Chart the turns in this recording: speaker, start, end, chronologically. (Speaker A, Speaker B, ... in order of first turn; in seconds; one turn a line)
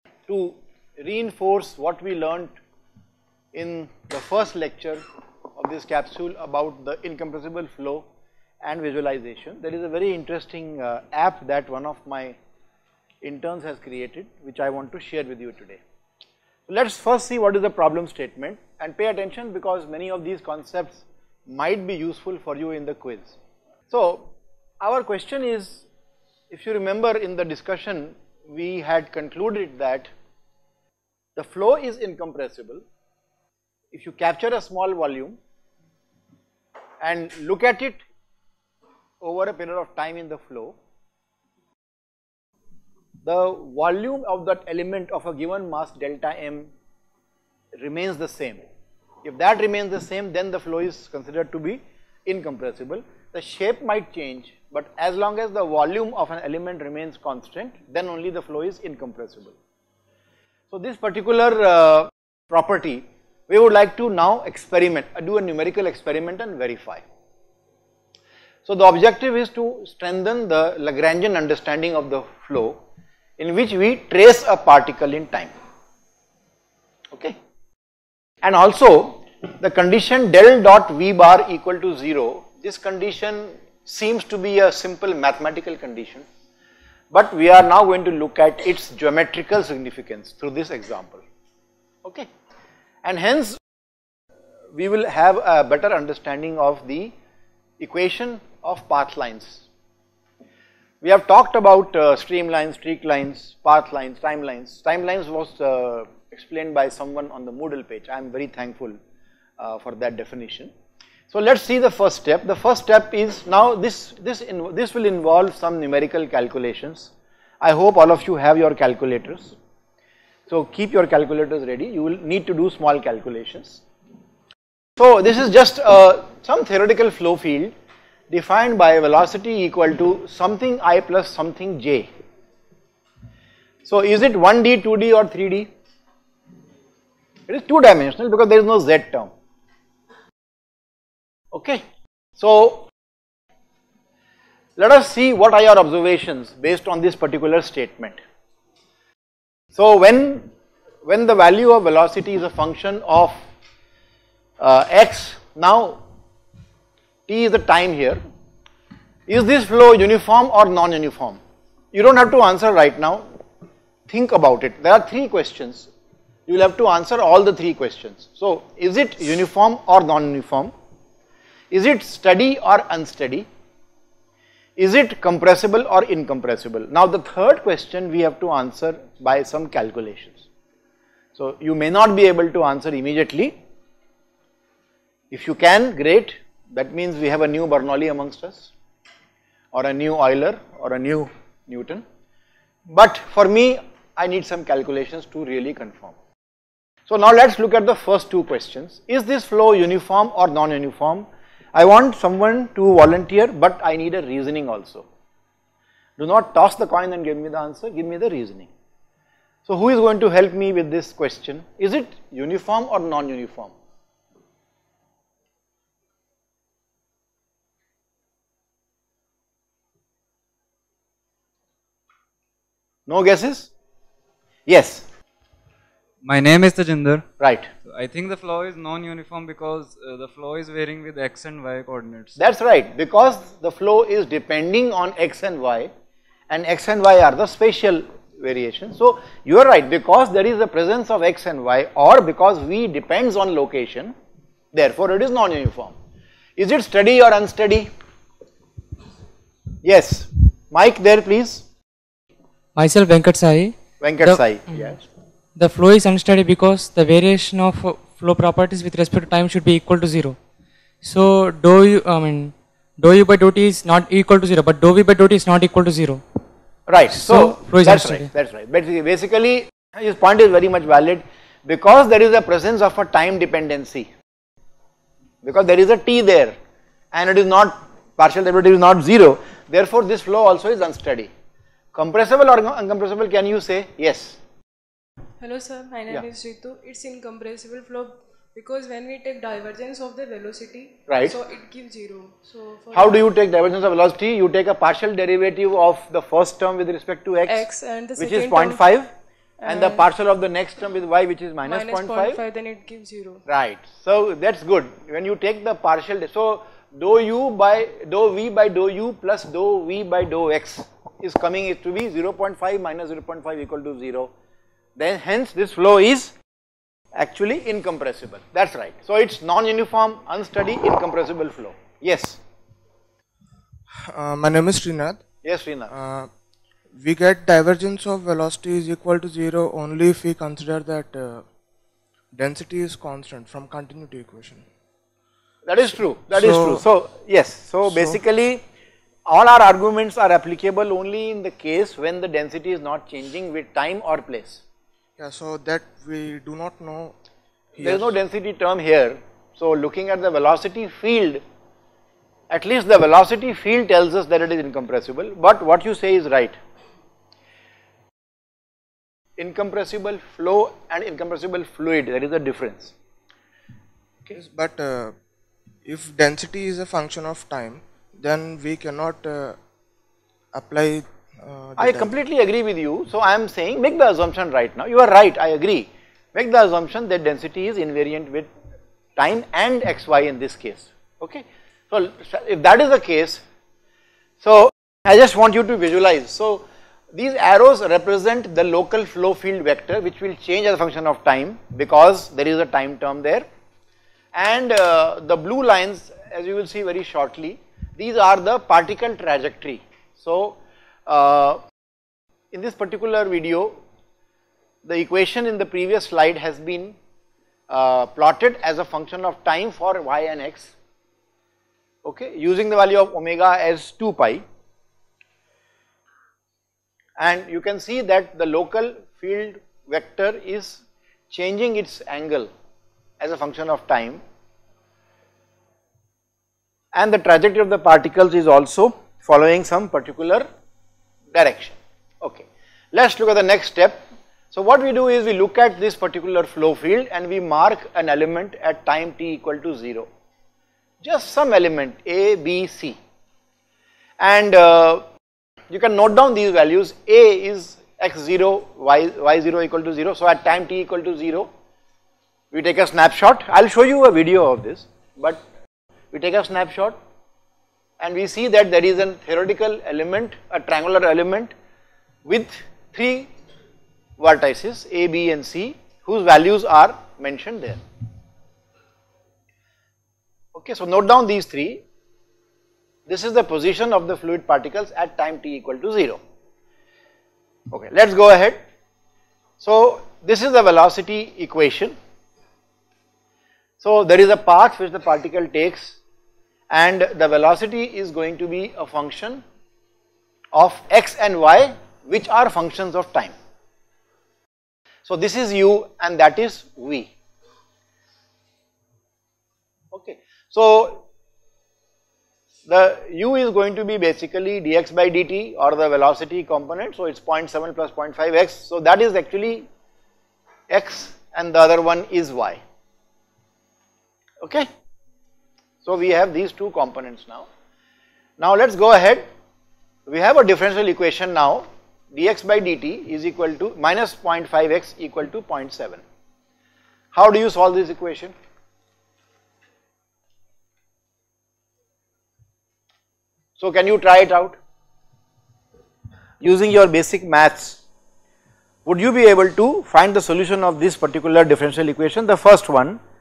Speaker A: 0.3-2.6
Speaker A: 3.5-5.0
Speaker A: 5.6-8.1
Speaker A: 8.6-12.4
Speaker A: 13.2-15.8
Speaker A: 16.7-23.4
Speaker A: 23.9-25.9
Speaker A: 26.5-30.1
Speaker A: 31.4-32.8
Speaker A: 33.9-35.4
Speaker A: 37.0-38.0
Speaker A: 39.2-40.8
Speaker A: 43.2-46.7
Speaker A: 47.8-48.7
Speaker A: 49.2-59.6
Speaker A: 60.7-67.0
Speaker A: 68.7-72.8
Speaker A: 73.4-75.5
Speaker A: 78.4-86.3
Speaker A: 87.1-91.2
Speaker A: 93.0-93.6
Speaker A: 94.7-97.2
Speaker A: 97.8-99.7
Speaker A: 101.0-109.0
Speaker A: 109.6-110.7
Speaker A: 111.3-119.5
Speaker A: 120.5-123.8
Speaker A: 125.0-127.7
Speaker A: 128.3-132.1
Speaker A: 133.8-135.7
Speaker A: 137.5-139.3
Speaker A: 141.5-141.8
Speaker A: 142.4-142.9
Speaker A: 144.8-148.2
Speaker A: 149.8-150.5
Speaker A: 151.1-153.4
Speaker A: 154.6-156.1
Speaker A: 157.3-158.2
Speaker A: 159.3-161.4
Speaker A: 161.9-163.2
Speaker A: 164.1-165.9
Speaker A: 166.5-170.7
Speaker A: 171.7-173.5
Speaker A: 174.8-180.5
Speaker A: 181.4-183.6
Speaker A: 185.3-188.7
Speaker A: 189.7-192.0
Speaker A: 192.9-196.2
Speaker A: 197.1-205.1
Speaker A: 206.2-208.7
Speaker A: 209.7-213.7
Speaker A: 223.1-223.7
Speaker A: 224.7-225.1
Speaker B: 226.2-227.3
Speaker A: 227.4-227.7
Speaker B: 227.8-232.4
Speaker A: 232.4-235.9
Speaker A: 236.5-244.1
Speaker A: 244.7-246.0
Speaker A: 246.6-247.9
Speaker A: 249.8-251.7
Speaker C: 252.8-255.0
Speaker A: 254.0-255.0
Speaker C: 255.6-260.4
Speaker C: 261.0-266.2
Speaker A: 266.9-274.1
Speaker C: 267.1-268.3
Speaker A: 275.4-276.6
Speaker A: 277.1-281.3
Speaker A: 281.9-284.4
Speaker D: 285.4-293.3
Speaker A: 291.1-291.4
Speaker A: 292.9-299.1
Speaker D: 297.5-298.9
Speaker D: 299.6-300.1
Speaker A: 299.7-302.4
Speaker D: 301.6-303.4
Speaker A: 303.5-314.3
Speaker A: 315.0-316.3
Speaker A: 317.1-322.4
Speaker E: 323.9-325.2
Speaker A: 325.4-325.9
Speaker E: 325.9-326.3
Speaker E: 326.9-331.4
Speaker E: 332.3-334.6
Speaker A: 335.7-338.6
Speaker E: 336.2-336.8
Speaker E: 337.9-338.2
Speaker A: 339.3-344.6
Speaker E: 345.2-347.1
Speaker E: 347.8-348.1
Speaker A: 347.8-351.4
Speaker A: 352.5-356.6
Speaker A: 359.4-362.9
Speaker E: 364.3-365.2
Speaker E: 365.9-369.6
Speaker E: 370.5-372.1
Speaker A: 371.8-378.5
Speaker A: 379.2-383.4
Speaker A: 384.4-393.5
Speaker A: 394.3-401.6
Speaker A: 402.5-403.8
Speaker A: 404.9-407.0
Speaker A: 407.7-410.8
Speaker A: 412.1-414.4
Speaker A: 417.2-422.5
Speaker A: 423.2-424.2
Speaker A: 426.9-430.5
Speaker A: 431.3-440.1
Speaker A: 441.0-443.0
Speaker A: 444.2-445.1
Speaker A: 445.7-451.5
Speaker A: 452.5-455.4
Speaker A: 456.1-457.0
Speaker A: 458.0-461.5
Speaker A: 462.3-463.3
Speaker A: 464.2-467.8
Speaker A: 470.5-471.8
Speaker A: 473.1-476.2
Speaker A: 477.7-478.6
Speaker A: 479.6-481.9
Speaker A: 483.8-486.0
Speaker A: 486.7-489.4
Speaker A: 490.5-493.4
Speaker A: 495.1-497.1
Speaker A: 499.9-501.1
Speaker A: 502.7-509.7
Speaker A: 510.7-512.6
Speaker A: 514.4-514.7
Speaker A: 515.8-517.5
Speaker A: 518.4-519.3
Speaker A: 520.1-526.0
Speaker A: 527.1-528.3
Speaker A: 533.6-534.6
Speaker A: 536.4-537.8
Speaker A: 538.9-543.0